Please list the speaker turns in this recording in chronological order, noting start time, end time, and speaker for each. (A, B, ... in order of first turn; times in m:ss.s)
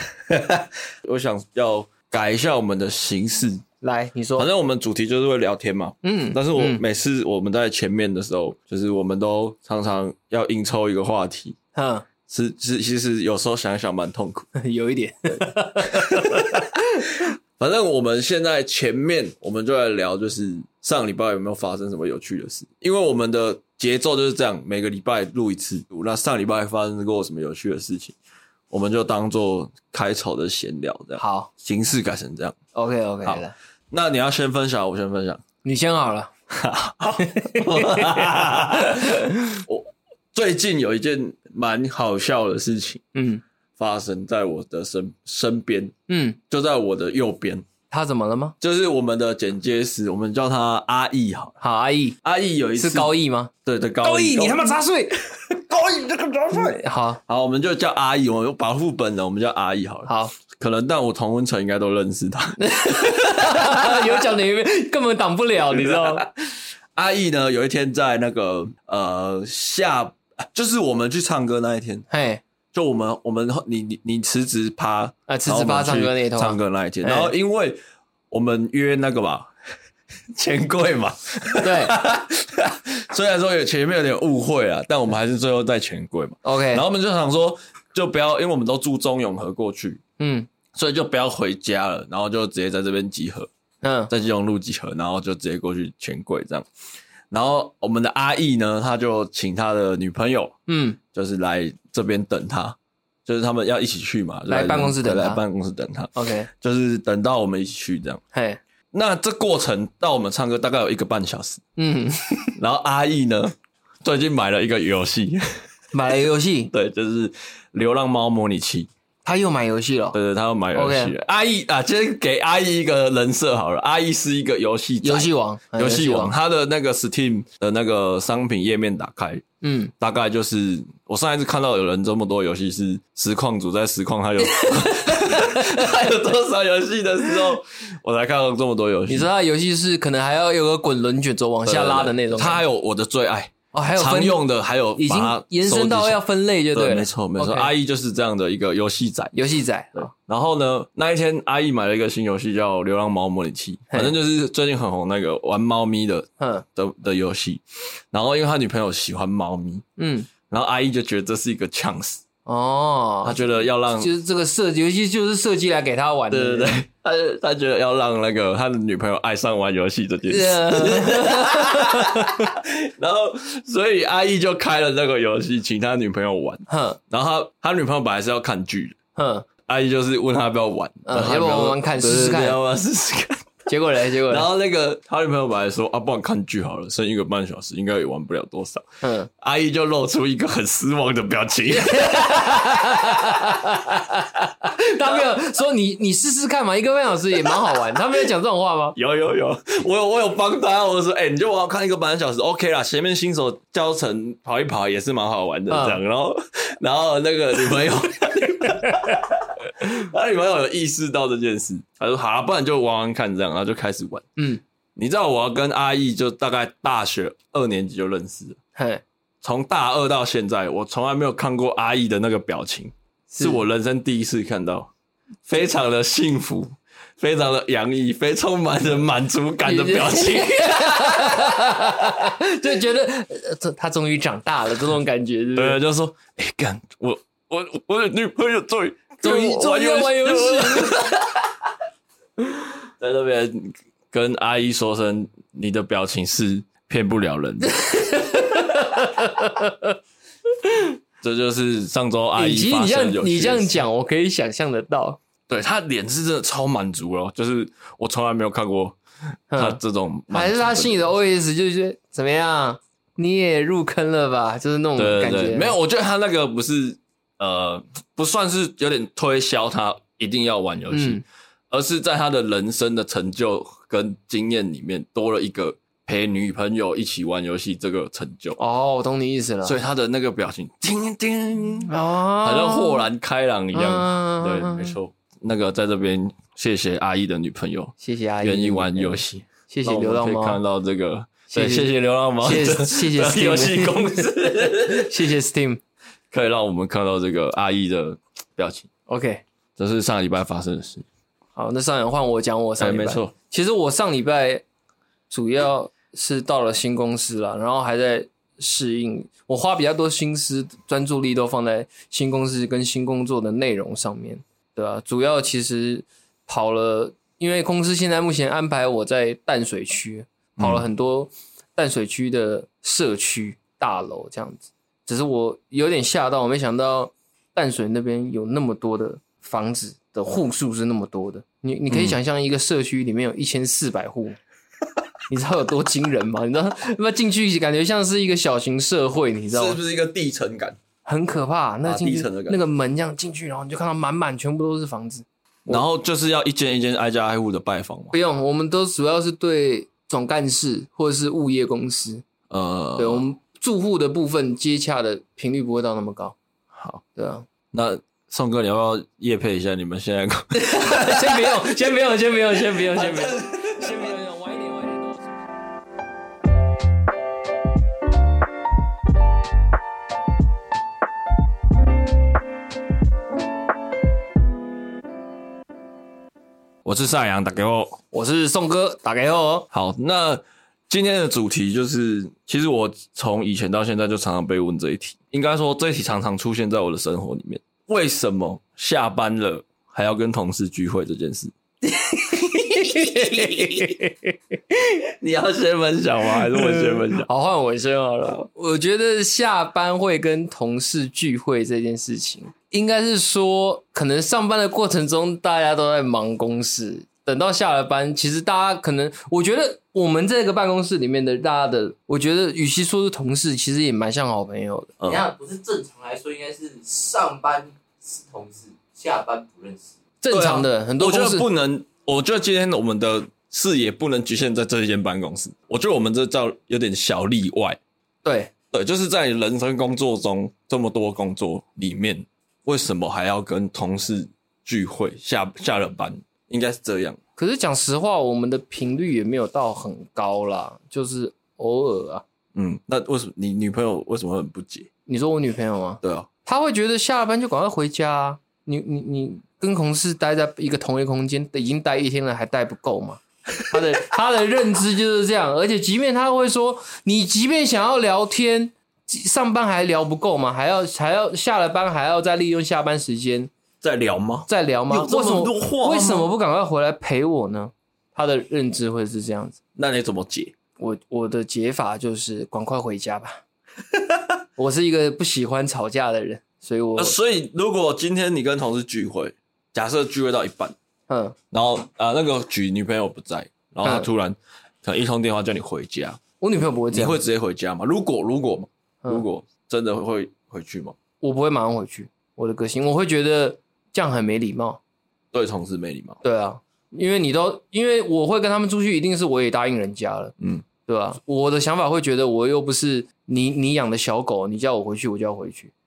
0:00.3-0:03.6 A
0:03.8-0:04.5 B
0:04.4-0:11.6 A
0:06.0-0:06.8 B
0:11.7-0:12.0 B
0:12.3-0:14.5 A
0:14.6-0:17.2 B
0:15.8-0:28.2 A
0:28.7-0:32.6 A
0:31.2-0:31.5 B
0:32.7-0:33.5 B
0:33.2-0:35.4 A
0:35.6-0:36.3 B
0:36.5-0:43.0 A
0:37.3-0:39.4 B
0:43.1-0:43.4 B
0:43.8-0:45.9 A
0:46.1-0:46.4 B
0:46.5-0:47.6 A
0:47.9-0:48.6 B
0:48.6-0:51.6 A
0:51.6-0:52.2 B
0:52.2-0:53.1 A
0:52.8-0:55.1 B
0:53.6-0:54.7 A
0:55.5-1:04.2 A
0:56.5-0:57.2 B
1:00.0-1:00.3 B
1:02.6-1:06.2 B
1:05.7-1:06.3 A
1:06.9-1:12.0 A
1:12.1-1:12.4 B
1:12.7-1:17.8 A
1:15.3-1:17.3 B
1:18.3-1:19.5 A
1:20.3-1:30.0 A
1:21.6-1:21.9 B
1:26.4-1:26.8 B
1:30.2-1:30.5 B
1:30.7-1:33.5 A
1:33.8-1:34.1 B
1:34.1-1:36.6 A
1:37.3-1:40.6 A
1:40.7-1:41.0 B
1:41.1-1:48.2 A
1:44.5-1:45.4 B
1:46.1-1:46.5 B
1:48.3-1:48.6 B
1:48.9-1:51.6 A
1:51.8-1:52.5 B
1:52.6-1:55.4 A
1:55.9-1:56.7 B
1:56.7-1:58.9 A
1:59.2-2:00.2 B
2:00.1-2:09.4 A
2:00.7-2:01.1 B
2:05.0-2:06.3 B
2:09.6-2:09.9 B
2:10.0-2:19.3 A
2:14.4-2:15.9 B
2:19.1-2:22.6 B
2:21.6-2:26.2 A
2:23.7-2:24.4 B
2:25.0-2:27.7 B
2:26.7-2:29.4 A
2:29.3-2:30.1 B
2:29.9-2:39.8 A
2:36.4-2:36.6 B
2:40.0-2:40.3 B
2:40.5-2:42.2 A
2:42.4-2:43.4 B
2:43.2-2:44.1 A
2:44.0-2:46.8 B
2:46.3-2:59.0 A
2:50.3-2:52.5 B
2:56.7-2:57.0 B
2:59.2-2:59.5 B
2:59.6-3:03.5 A
3:01.1-3:02.6 B
3:03.7-3:04.5 B
3:04.2-3:08.9 A
3:09.0-3:09.3 B
3:09.4-3:13.5 A
3:11.7-3:19.0 B
3:18.9-3:34.3 A
3:25.7-3:26.0 B
3:34.4-3:34.6 B
3:35.0-3:38.6 A
3:38.8-3:39.0 B
3:39.4-3:44.9 A
3:43.3-3:43.6 B
3:45.4-3:51.9 A
3:49.6-3:55.8 B
3:55.6-4:01.3 A
3:59.2-4:01.2 B
4:03.0-4:07.8 A
4:07.6-4:10.0 B
4:10.6-4:10.9 B
4:11.2-4:13.8 A
4:12.4-4:15.2 B
4:15.5-4:19.0 A
4:19.5-4:25.7 B
4:19.5-4:21.1 A
4:25.0-4:38.6 A
4:30.9-4:31.2 B
4:38.6-4:39.8 B
4:39.6-4:55.1 A
4:41.9-4:43.0 B
4:43.7-4:45.0 B
4:48.0-4:50.6 B
4:51.5-4:51.9 B
4:52.4-4:55.8 B
4:56.3-4:58.9 A
4:59.1-4:59.4 B
4:59.8-5:01.0 A
5:01.5-5:04.6 B
5:02.8-5:03.3 A
5:05.3-5:34.4 B
5:20.6-5:20.8 A
5:31.9-5:32.2 A
5:35.3-5:39.8 B
5:39.5-5:40.8 A
5:41.0-5:45.8 B
5:41.8-5:42.6 A
5:45.7-5:48.1 A
5:48.1-5:52.2 B
5:52.5-5:53.2 A
5:53.0-5:56.4 B
5:56.7-5:57.0 A
5:57.2-5:57.4 B
5:57.7-6:01.8 A
6:00.6-6:05.4 B
6:02.5-6:04.1 A
6:16.8-6:18.0 A
6:18.1-6:19.7 B
6:19.7-6:31.5 A
6:31.9-6:34.4 B
6:32.3-6:33.9 A
6:35.2-6:37.3 A
6:36.3-6:54.9 B
6:55.0-6:55.3 A
6:55.0-7:00.0 C
7:00.2-7:01.5 B
7:00.3-7:07.8 A
7:08.2-7:08.5 B
7:08.7-7:17.2 A
7:17.4-7:22.2 B
7:22.5-7:24.9 A
7:25.1-7:43.5 B
7:26.0-7:26.3 A
7:43.8-7:46.3 A
7:44.5-7:49.6 B
7:49.8-7:50.5 A
7:50.8-7:53.4 B
7:54.6-7:57.2 B
7:57.0-8:00.8 A
8:01.1-8:01.4 B
8:01.5-8:06.2 A
8:06.4-8:07.2 B
8:06.9-8:11.0 A
8:11.2-8:14.8 B
8:15.3-8:16.2 A
8:16.2-8:20.3 B
8:20.4-8:20.6 A
8:20.8-8:25.7 B